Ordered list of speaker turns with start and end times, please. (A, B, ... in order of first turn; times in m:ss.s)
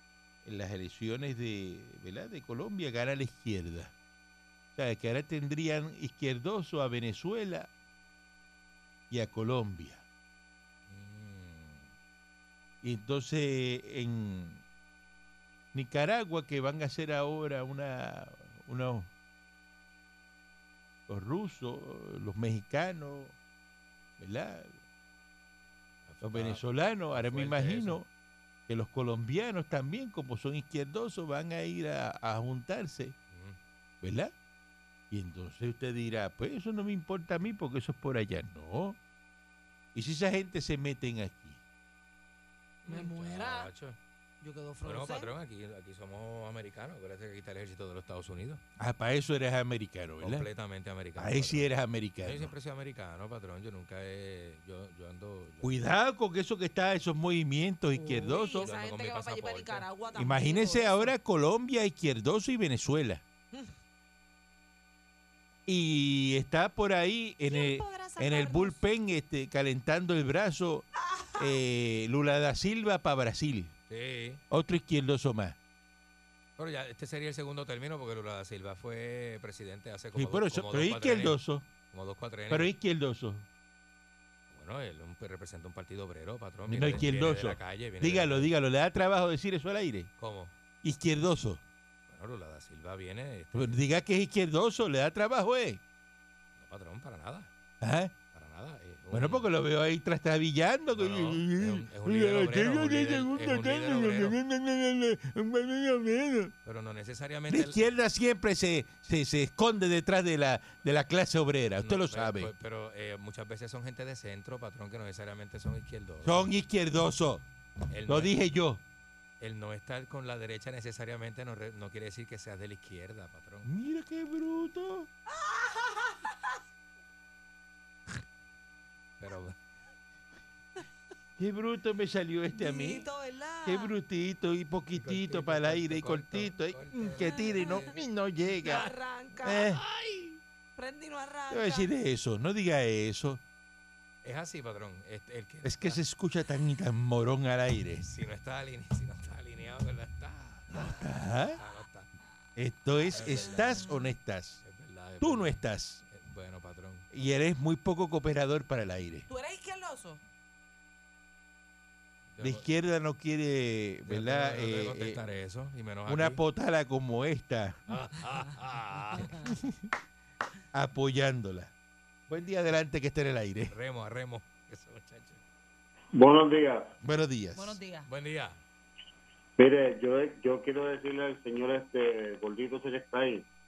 0:00.4-0:03.9 A
0:04.8-0:07.7 A
0:09.1-0:10.0 A
0:10.9-0:11.9 B
0:12.8-0:14.6 A
0:15.7-0:19.1 A
0:21.1-0:23.4 A
0:24.2-0:24.8 A
0:26.1-0:26.6 B
0:26.2-0:28.1 A
0:27.1-0:28.0 B
0:28.7-0:33.2 A
0:33.3-0:33.6 B
0:34.0-0:34.3 A
0:35.1-0:39.0 A
0:39.9-0:41.6 A
0:42.8-0:43.7 C
0:42.9-0:44.0 B
0:44.4-0:45.3 C
0:44.8-0:48.6 B
0:48.8-0:50.5 A
0:50.2-0:51.7 B
0:51.2-0:52.5 A
0:52.2-0:55.7 B
0:55.6-0:58.7 A
0:58.0-1:01.1 C
0:58.6-0:59.9 B
1:00.2-1:03.2 A
1:05.7-1:13.7 A
1:07.5-1:08.8 C
1:11.0-1:11.6 C
1:13.9-1:14.4 B
1:14.5-1:15.6 A
1:16.6-1:21.4 B
1:20.1-1:21.7 A
1:21.9-1:22.7 B
1:22.5-1:23.5 A
1:24.5-1:28.5 B
1:26.7-1:30.1 A
1:30.2-1:30.6 B
1:30.8-1:31.6 A
1:32.1-1:33.7 B
1:33.5-1:35.8 A
1:36.6-1:37.5 B
1:37.8-1:38.2 A
1:38.3-1:39.4 B
1:39.1-1:46.5 A
1:40.9-1:44.4 B
1:46.6-1:47.8 B
1:47.5-1:52.5 A
1:51.8-1:56.5 B
1:56.2-1:57.4 A
1:57.9-1:58.3 B
1:58.1-1:58.8 A
1:59.4-2:03.7 B
2:03.6-2:05.1 A
2:05.3-2:06.5 C
2:09.2-2:09.6 B
2:11.4-2:13.1 A
2:12.5-2:13.9 C
2:13.6-2:19.8 A
2:15.0-2:17.9 B
2:17.2-2:17.9 C
2:18.6-2:19.7 C
2:19.8-2:20.4 B
2:20.8-2:21.9 C
2:21.5-2:23.4 A
2:24.2-2:26.0 B
2:25.6-2:28.1 A
2:28.0-2:31.0 B
2:30.7-2:31.6 A
2:31.6-2:32.1 B
2:32.6-2:34.6 A
2:33.1-2:34.0 B
2:34.6-2:37.1 B
2:35.2-2:36.0 A
2:37.1-2:39.3 A
2:39.3-2:40.2 C
2:42.3-2:42.6 B
2:42.4-2:45.2 A
2:44.1-2:46.4 B
2:46.1-2:47.8 A
2:47.9-2:49.5 B
2:50.7-2:51.7 A
2:52.3-2:53.7 A
2:53.7-2:55.4 B
2:56.1-2:57.0 D
2:57.0-2:57.8 A
2:57.6-2:58.1 C
2:58.1-2:58.6 B
2:59.6-3:03.5 D